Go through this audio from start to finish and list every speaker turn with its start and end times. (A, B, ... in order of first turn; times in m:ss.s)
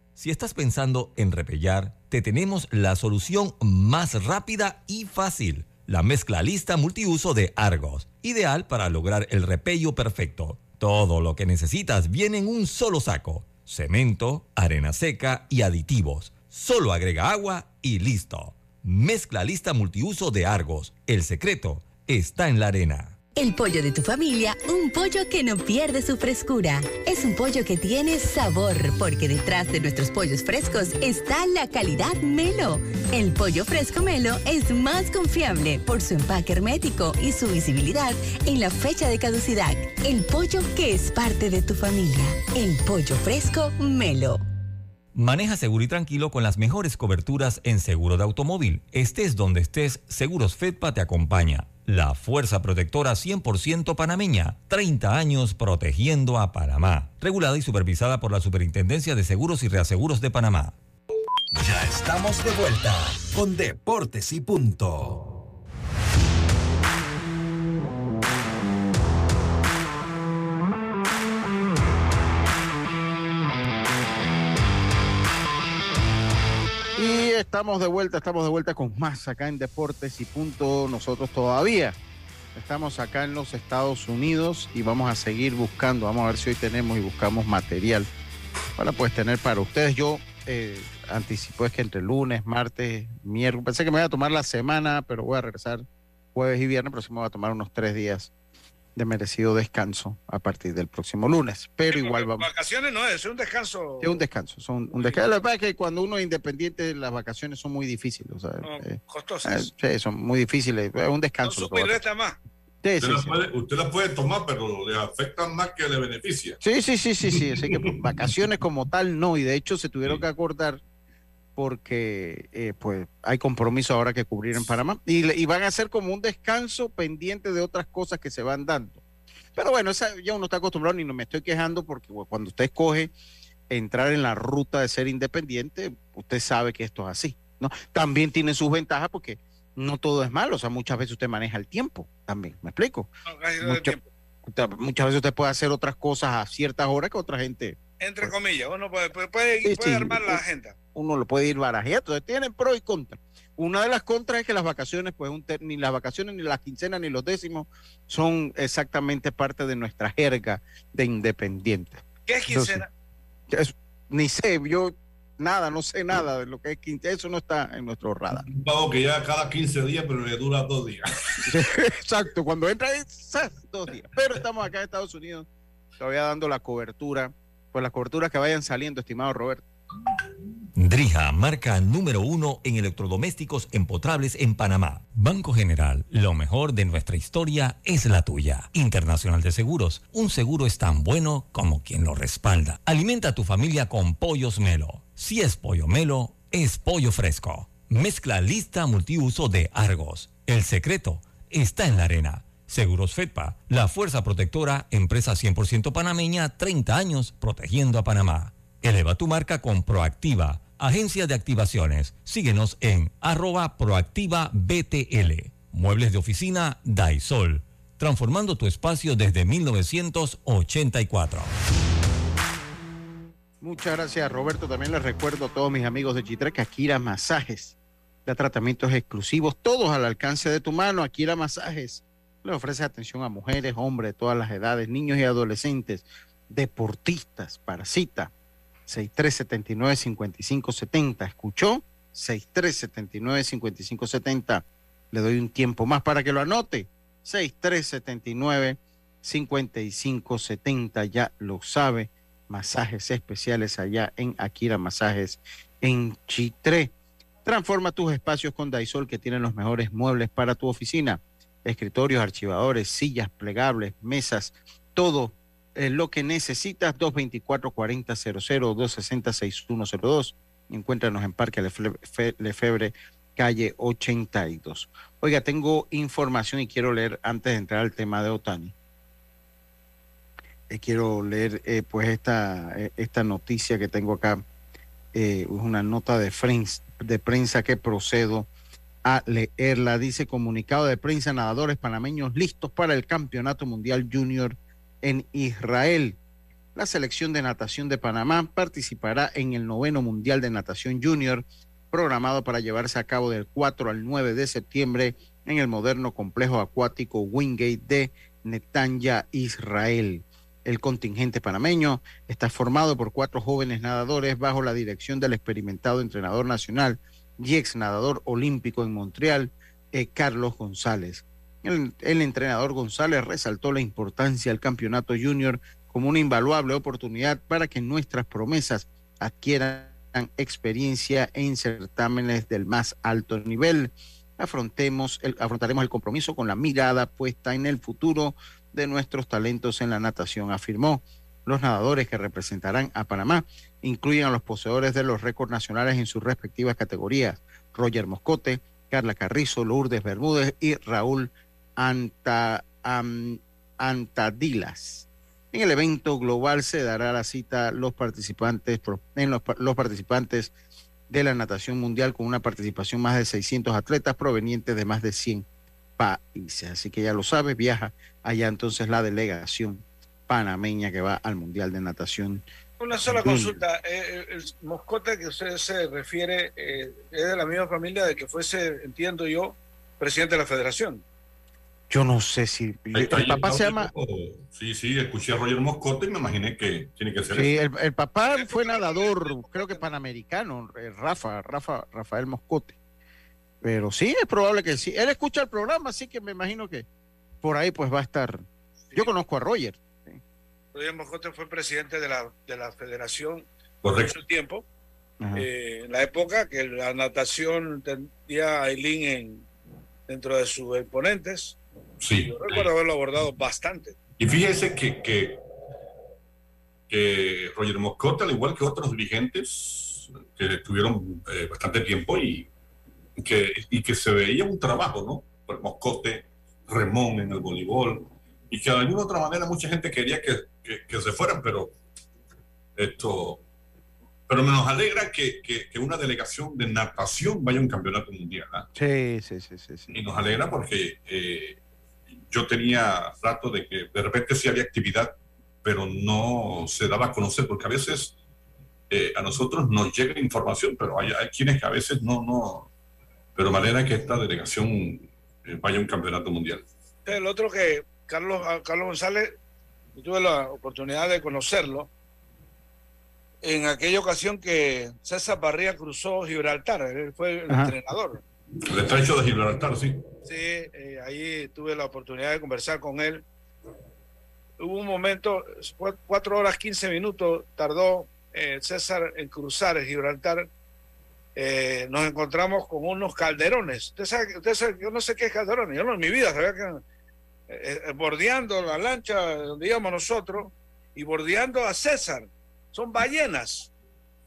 0:00.2-0:23.2 A
0:23.4-0:44.4 B
0:45.1-1:00.8 A
1:01.6-1:05.3 C
1:17.0-1:22.0 D
1:22.6-1:28.1 D
1:28.8-1:38.3 D
1:39.0-1:42.5 D
1:41.9-1:44.2 E
1:44.0-1:49.0 D
1:44.9-1:45.3 E
1:48.6-1:49.7 E
1:49.5-1:52.0 D
1:51.4-1:52.4 E
1:52.8-1:53.4 D
1:53.0-1:56.6 F
1:56.6-2:00.8 D
1:57.3-1:58.0 F
2:01.6-2:09.0 D
2:09.6-2:13.1 D
2:13.7-2:23.1 D
2:23.3-2:24.1 E
2:23.6-2:23.9 D
2:24.5-2:28.3 D
2:28.0-2:30.8 E
2:29.6-2:30.4 D
2:30.9-2:42.8 D
2:42.3-2:42.9 E
2:43.5-2:48.5 D
2:48.5-2:51.6 F
2:51.5-2:55.5 D
2:56.0-2:59.6 D
3:00.8-3:41.5 A
3:43.6-3:47.8 D
3:48.3-3:58.3 D
3:58.9-4:16.9 D
4:17.4-4:38.7 D
4:40.7-4:44.4 D
4:45.1-4:48.5 D
4:49.0-4:56.2 D
4:56.8-6:00.5 D
6:01.1-6:05.5 D
6:06.0-6:12.5 D
6:12.8-6:21.0 E
6:13.1-6:13.6 D
6:21.9-6:23.9 D
6:22.9-6:27.5 F
6:27.3-6:32.8 D
6:28.2-6:29.9 E
6:33.6-6:36.9 D
6:37.4-6:40.2 D
6:40.7-6:43.5 E
6:43.8-6:44.2 F
6:44.0-6:44.6 E
6:45.2-6:45.5 D
6:45.4-6:49.5 E
6:50.1-6:51.6 E
6:52.0-6:52.7 F
6:52.2-6:54.0 E
6:54.2-6:55.4 F
6:56.9-7:02.5 F
7:03.2-7:11.8 F
7:12.8-7:13.4 F
7:14.3-7:18.7 F
7:18.8-7:19.9 D
7:19.9-7:21.6 F
7:22.3-7:28.2 F
7:28.9-7:32.7 F
7:33.4-7:36.6 F
7:37.1-7:39.3 E
7:40.0-7:41.9 E
7:43.4-7:48.2 E
7:48.6-7:50.0 F
7:50.2-7:53.2 E
7:54.6-8:00.5 E
8:01.4-8:06.8 E
8:07.5-8:13.7 E